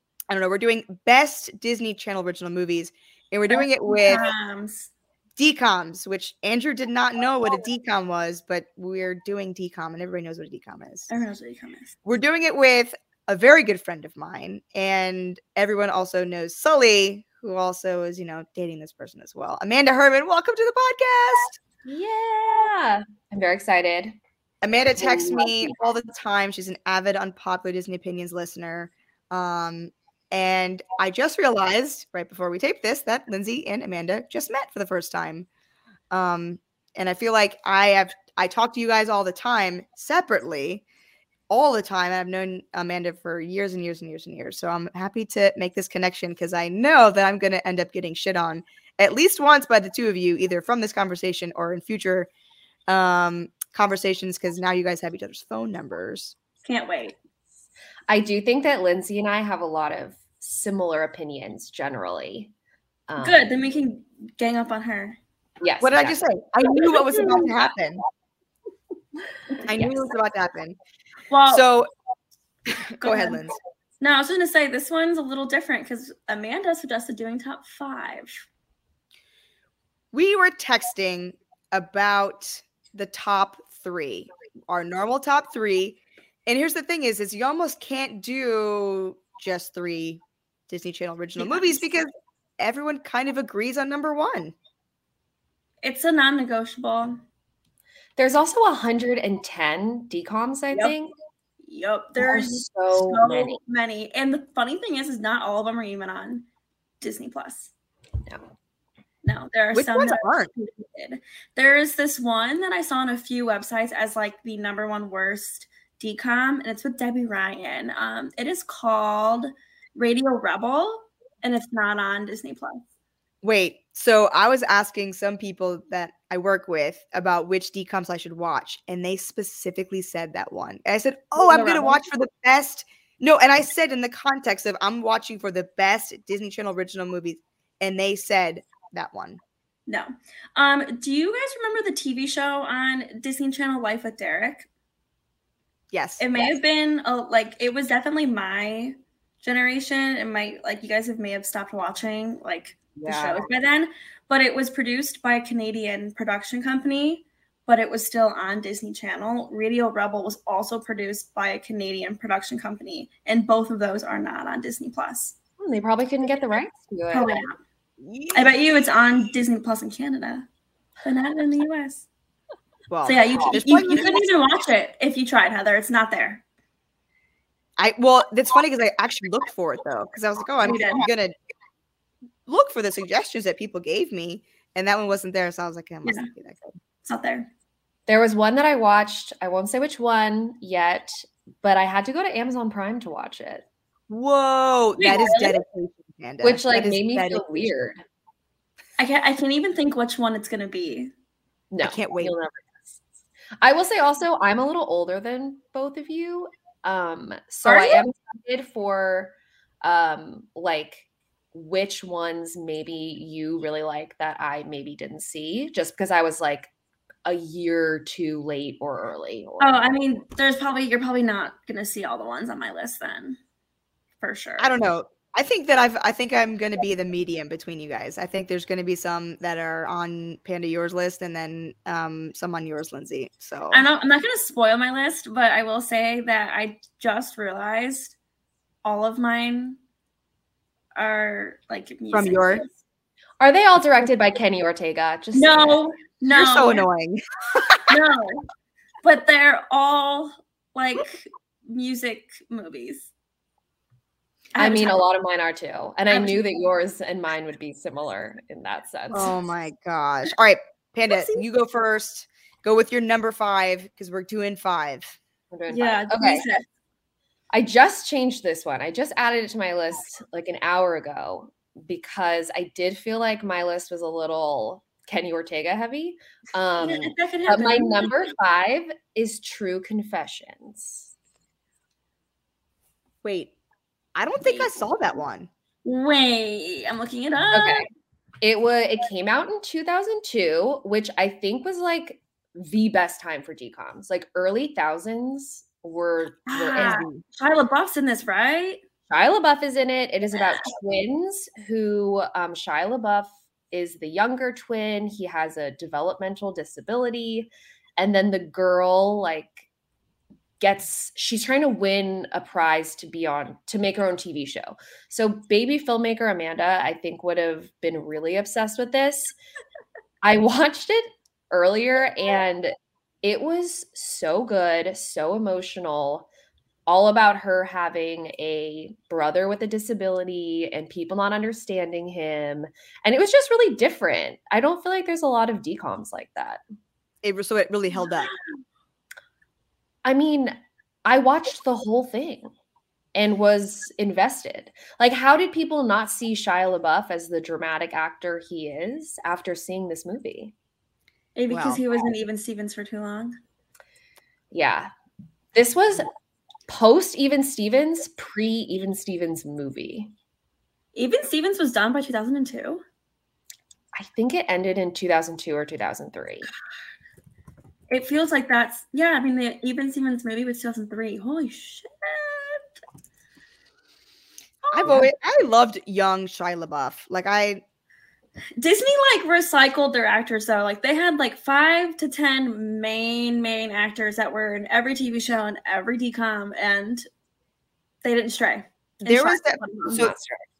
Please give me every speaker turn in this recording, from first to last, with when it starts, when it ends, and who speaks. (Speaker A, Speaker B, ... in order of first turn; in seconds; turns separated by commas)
Speaker A: 0.3-4.2, Speaker B: 3.5-4.9, Speaker A: 5.4-11.1, Speaker B: 11.1-11.9, Speaker A: 12.1-21.6, Speaker C: 21.9-24.1, Speaker A: 24.6-35.5, Speaker C: 25.0-25.8, Speaker A: 36.1-40.8, Speaker A: 41.5-52.3, Speaker A: 52.9-56.3, Speaker B: 56.6-57.1, Speaker C: 58.1-62.5, Speaker C: 63.1-63.5, Speaker B: 63.2-65.2, Speaker C: 65.6-66.2, Speaker A: 65.8-68.0, Speaker B: 66.8-67.5, Speaker A: 69.7-70.8, Speaker C: 69.7-70.0, Speaker B: 71.3-71.6, Speaker A: 71.5-71.9, Speaker A: 72.7-73.5, Speaker B: 73.0-73.4, Speaker B: 74.0-78.4, Speaker A: 80.1-94.5, Speaker B: 91.4-91.9, Speaker B: 95.8-97.2, Speaker C: 98.2-101.1, Speaker B: 101.6-106.5, Speaker C: 102.2-103.6, Speaker B: 107.0-107.7, Speaker B: 109.2-122.8, Speaker A: 109.7-110.5, Speaker A: 123.4-139.4, Speaker B: 131.4-132.0, Speaker B: 139.9-144.7, Speaker A: 145.9-146.2, Speaker B: 146.2-165.3, Speaker C: 165.6-167.4, Speaker B: 167.1-167.5, Speaker A: 168.0-168.5, Speaker B: 168.3-170.5, Speaker B: 171.0-172.1, Speaker A: 172.9-174.3, Speaker B: 173.0-176.4, Speaker A: 177.8-181.3, Speaker B: 180.6-181.1, Speaker A: 182.5-186.8, Speaker B: 187.0-187.5, Speaker C: 188.1-193.6, Speaker A: 194.1-197.7, Speaker B: 195.0-195.6, Speaker C: 196.4-198.0, Speaker B: 199.0-201.1, Speaker C: 201.7-203.0, Speaker A: 201.8-202.3, Speaker C: 203.6-216.7, Speaker B: 207.6-208.1, Speaker C: 217.2-219.9, Speaker B: 219.6-223.4, Speaker B: 224.2-224.7, Speaker A: 224.6-233.9, Speaker B: 233.7-238.1, Speaker B: 238.8-239.8, Speaker B: 240.9-242.7, Speaker A: 242.1-242.7, Speaker C: 243.4-245.8, Speaker B: 245.3-246.8, Speaker A: 246.3-248.0, Speaker B: 247.9-248.4, Speaker B: 249.0-253.1, Speaker B: 254.6-255.0, Speaker C: 254.6-259.3, Speaker B: 256.1-256.4, Speaker A: 259.1-265.2, Speaker B: 261.1-261.4, Speaker C: 265.5-266.4, Speaker B: 265.7-266.6, Speaker C: 267.5-281.1, Speaker B: 276.8-278.3, Speaker A: 283.2-283.5, Speaker A: 284.1-285.5, Speaker C: 284.4-284.9, Speaker B: 285.8-287.8, Speaker C: 287.5-287.9, Speaker C: 288.4-297.1, Speaker B: 296.5-298.8, Speaker A: 296.8-297.2, Speaker C: 299.1-309.6, Speaker C: 310.6-319.3, Speaker C: 320.2-326.3, Speaker C: 326.9-336.6, Speaker A: 337.2-338.3, Speaker C: 340.0-342.5, Speaker C: 343.1-350.5, Speaker B: 351.4-353.4, Speaker A: 351.5-351.8, Speaker C: 354.5-354.9, Speaker C: 355.5-356.1, Speaker C: 356.7-360.1, Speaker B: 360.9-362.8, Speaker C: 363.9-366.5, Speaker B: 367.9-372.7, Speaker A: 374.7-377.6, Speaker B: 378.6-387.1, Speaker B: 388.0-390.1, Speaker A: 389.0-390.1, Speaker C: 389.9-390.4